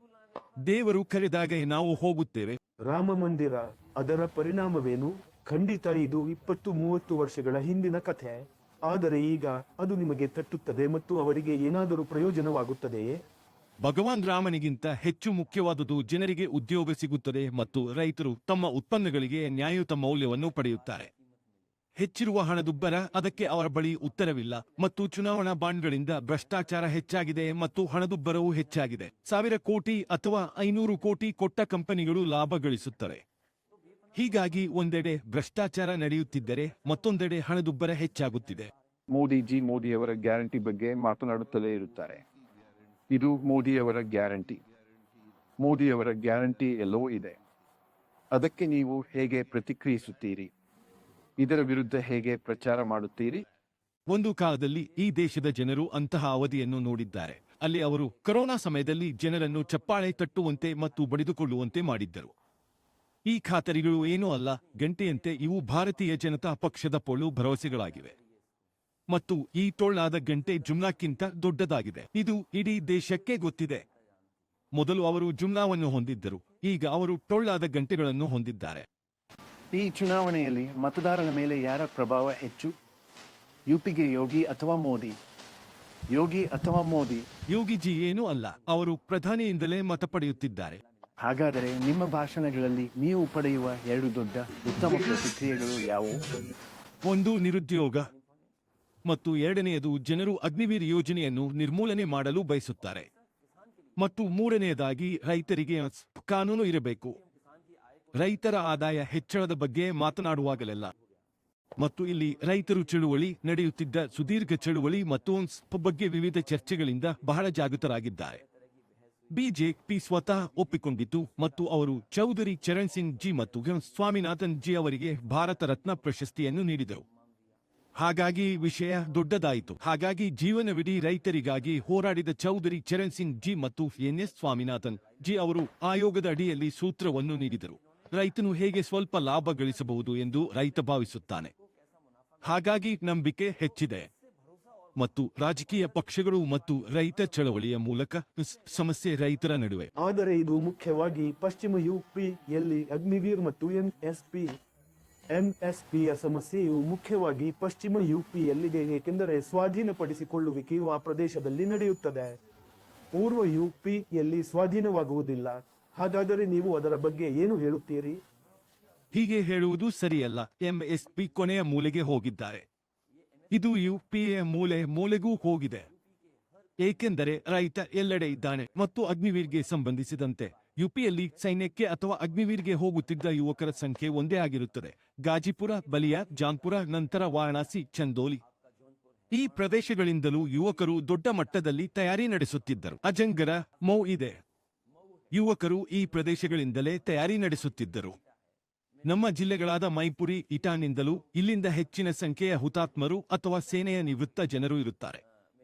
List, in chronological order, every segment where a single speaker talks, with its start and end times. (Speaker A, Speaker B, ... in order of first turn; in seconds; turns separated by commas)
Speaker A: 0.6-2.6, Speaker B: 2.8-13.2, Speaker A: 13.8-21.1, Speaker A: 22.0-33.2, Speaker A: 34.1-38.7, Speaker C: 39.1-42.2, Speaker C: 43.1-44.6, Speaker C: 45.6-47.4, Speaker C: 48.3-50.5, Speaker C: 51.4-53.4, Speaker A: 54.1-62.3, Speaker A: 63.3-68.1, Speaker A: 69.1-73.8, Speaker A: 74.7-78.8, Speaker D: 79.7-82.7, Speaker D: 83.7-85.2, Speaker D: 86.1-87.2, Speaker A: 87.5-90.8, Speaker D: 91.2-96.2, Speaker A: 97.0-98.1, Speaker A: 99.0-103.1, Speaker A: 104.0-107.2, Speaker A: 108.2-110.9, Speaker A: 111.8-118.4, Speaker A: 119.3-127.0, Speaker A: 128.0-141.5, Speaker A: 142.4-144.1, Speaker A: 145.0-149.9, Speaker B: 150.0-154.6, Speaker B: 155.3-162.4, Speaker B: 163.1-168.2, Speaker A: 169.1-172.6, Speaker A: 173.5-175.8, Speaker A: 176.8-188.4, Speaker A: 189.3-194.4, Speaker A: 195.3-198.2, Speaker A: 199.0-205.2